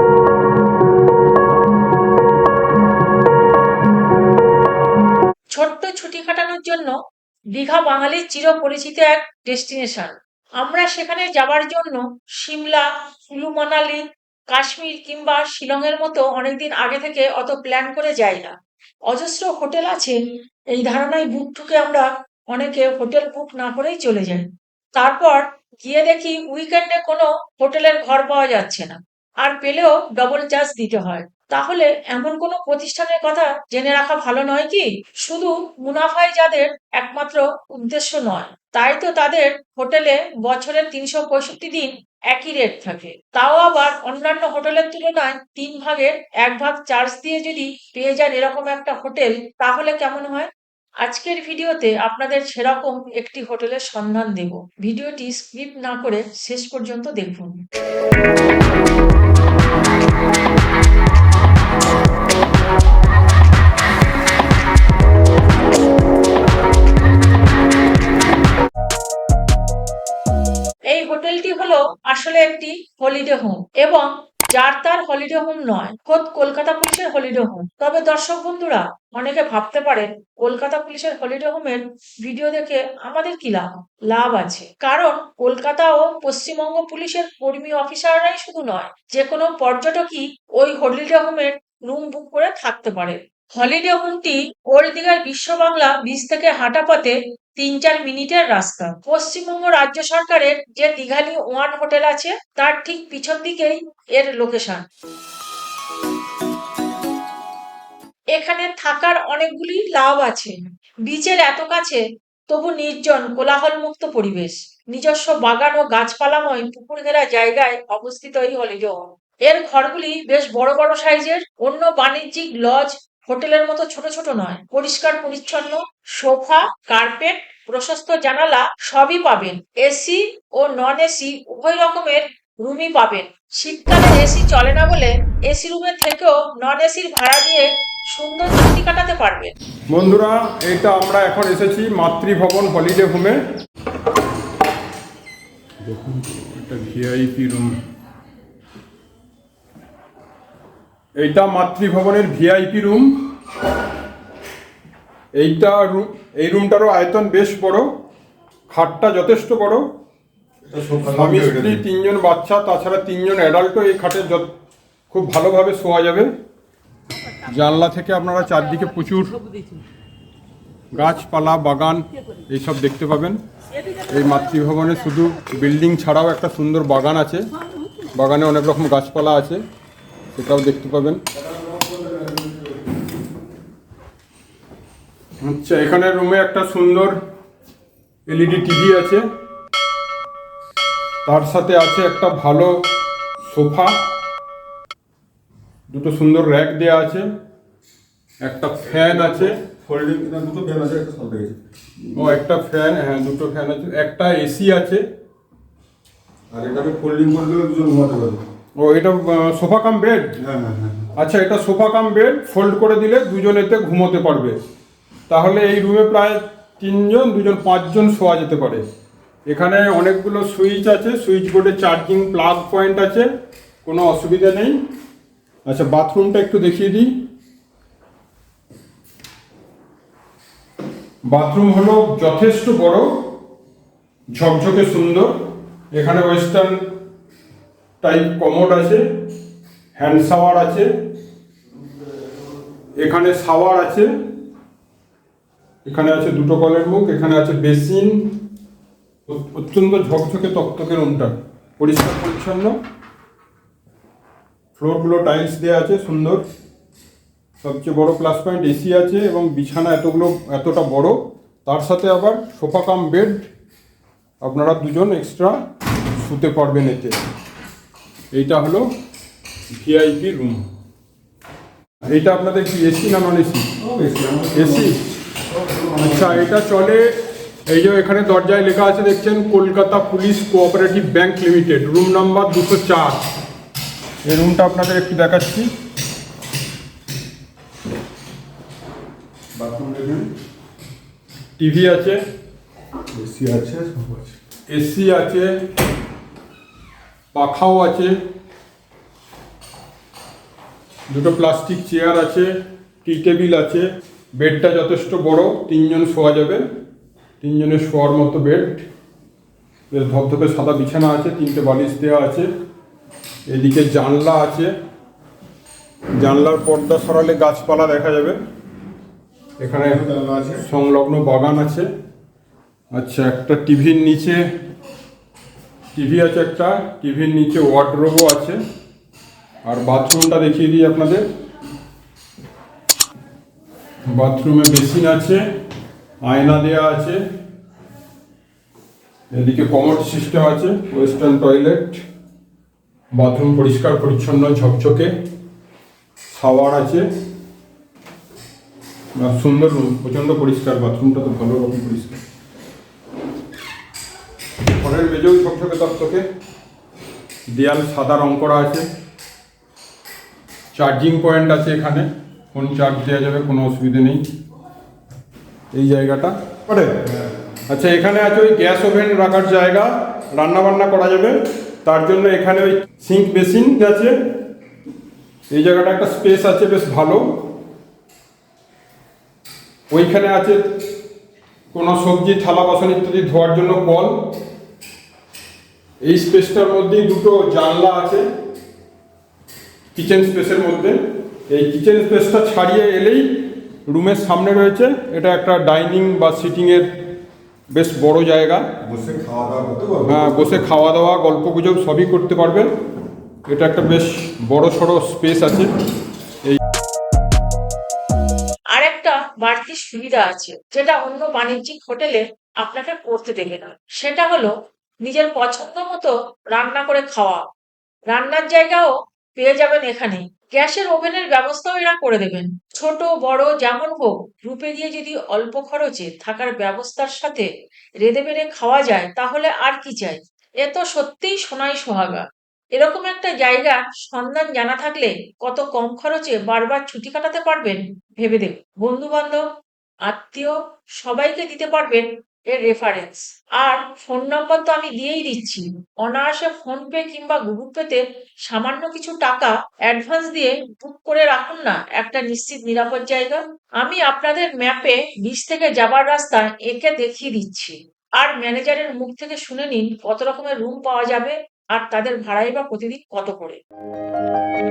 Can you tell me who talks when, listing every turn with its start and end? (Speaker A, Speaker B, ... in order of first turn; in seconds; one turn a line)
Speaker A: 5.5-7.0
Speaker A: 7.5-18.5
Speaker A: 19.1-20.2
Speaker A: 20.7-50.5
Speaker A: 51.0-57.6
Speaker A: 70.9-104.8
Speaker A: 108.3-139.5
Speaker B: 139.9-143.4
Speaker B: 145.8-147.8
Speaker B: 151.2-153.3
Speaker B: 155.3-157.9
Speaker B: 158.7-159.8
Speaker C: 160.7-161.8
Speaker B: 161.1-164.5
Speaker B: 165.1-166.3
Speaker B: 167.5-169.3
Speaker B: 170.9-173.4
Speaker B: 174.1-177.4
Speaker B: 178.1-179.6
Speaker B: 180.3-181.2
Speaker C: 181.4-182.7
Speaker B: 185.4-187.2
Speaker B: 188.3-189.2
Speaker B: 191.2-192.7
Speaker B: 193.5-193.9
Speaker B: 195.9-197.3
Speaker B: 198.4-199.5
Speaker C: 199.0-202.4
Speaker B: 202.2-205.0
Speaker C: 206.5-208.4
Speaker B: 208.8-210.3
Speaker C: 210.4-211.1
Speaker B: 211.2-214.6
Speaker B: 215.3-218.8
Speaker B: 219.5-223.3
Speaker B: 223.8-224.8
Speaker B: 225.6-227.1
Speaker B: 231.3-233.3
Speaker B: 234.3-235.3
Speaker B: 235.9-236.8
Speaker B: 238.0-239.0
Speaker B: 239.9-240.9
Speaker B: 242.9-244.1
Speaker B: 245.8-248.3
Speaker B: 249.3-252.7
Speaker B: 254.8-256.4
Speaker B: 257.6-263.5
Speaker B: 264.4-265.6
Speaker B: 266.2-267.2
Speaker B: 268.3-268.9
Speaker B: 269.7-270.6
Speaker B: 272.1-273.7
Speaker C: 273.8-274.9
Speaker B: 274.5-275.0
Speaker C: 275.5-276.5
Speaker B: 276.0-277.1
Speaker B: 277.7-283.2
Speaker B: 284.2-285.7
Speaker C: 289.5-290.3
Speaker B: 291.6-292.2
Speaker C: 293.1-294.4
Speaker B: 294.7-295.5
Speaker B: 297.3-298.1
Speaker B: 301.1-306.6
Speaker B: 307.4-308.9
Speaker B: 309.9-312.5
Speaker B: 313.5-314.7
Speaker B: 316.2-318.4
Speaker B: 319.6-320.0
Speaker C: 319.8-320.6
Speaker B: 320.6-321.9
Speaker B: 322.9-324.4
Speaker B: 325.9-328.6
Speaker B: 329.6-331.2
Speaker B: 334.1-335.4
Speaker B: 336.2-337.2
Speaker B: 339.3-342.0
Speaker B: 343.1-345.1
Speaker B: 346.3-347.1
Speaker B: 349.2-352.2
Speaker B: 354.8-356.2
Speaker B: 357.5-358.9
Speaker B: 360.7-364.2
Speaker B: 365.7-367.0
Speaker B: 367.7-374.1
Speaker B: 375.5-377.2
Speaker B: 379.9-380.7
Speaker B: 381.7-384.2
Speaker B: 386.0-388.2
Speaker B: 389.9-396.9
Speaker B: 397.7-398.6
Speaker C: 398.8-400.7
Speaker B: 400.1-402.7
Speaker B: 403.5-405.7
Speaker A: 408.7-414.5
Speaker A: 415.0-417.4
Speaker A: 418.1-427.5
Speaker A: 428.0-439.4
Speaker A: 440.1-463.6